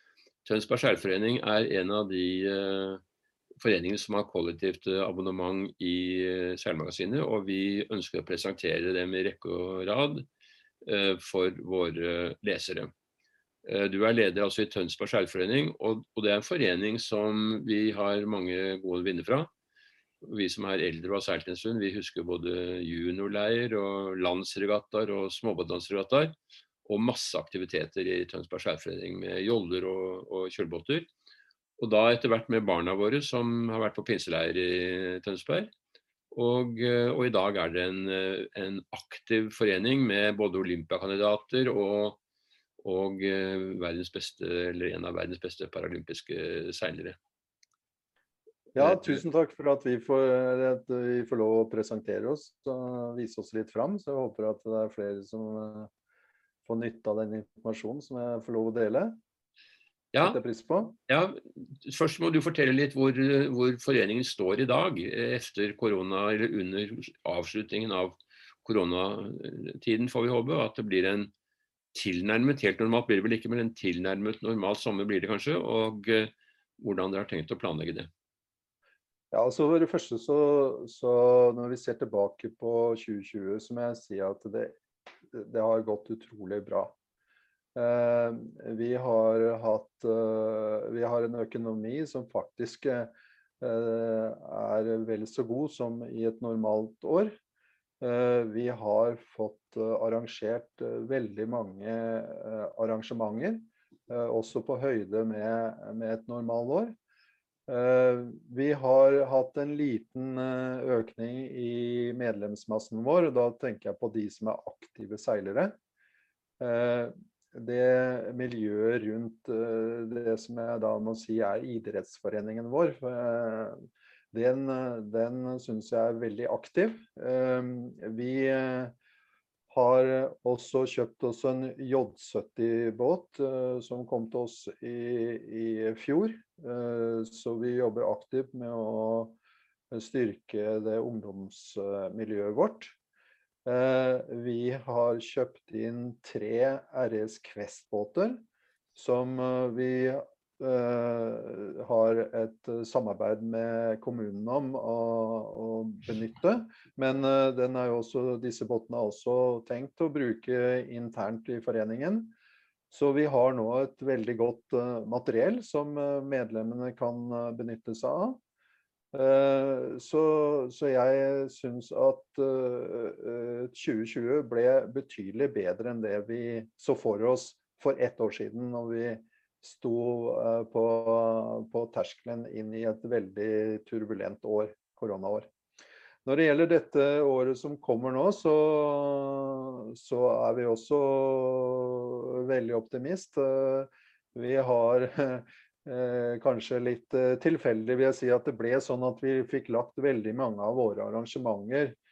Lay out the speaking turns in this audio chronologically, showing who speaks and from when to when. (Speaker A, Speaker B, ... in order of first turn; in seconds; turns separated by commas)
Speaker A: 0.4-3.0, Speaker A: 3.6-10.3, Speaker A: 10.8-12.9, Speaker A: 13.6-19.5, Speaker A: 20.2-26.3, Speaker A: 26.9-31.1, Speaker A: 31.8-35.7, Speaker A: 36.3-42.2, Speaker A: 42.8-47.2, Speaker B: 48.7-55.9, Speaker A: 48.8-49.2, Speaker B: 56.6-59.2, Speaker A: 60.1-60.4, Speaker B: 60.2-60.9, Speaker A: 61.1-71.3, Speaker A: 71.9-78.1, Speaker B: 79.3-84.8, Speaker B: 85.3-86.9, Speaker B: 87.7-97.3, Speaker B: 98.0-106.9, Speaker B: 107.7-115.7, Speaker B: 116.6-123.8, Speaker B: 124.3-128.9, Speaker B: 129.7-139.4, Speaker B: 139.9-142.9, Speaker B: 143.6-148.4, Speaker B: 148.9-162.3, Speaker B: 162.9-168.4, Speaker B: 169.1-185.5, Speaker B: 186.2-202.0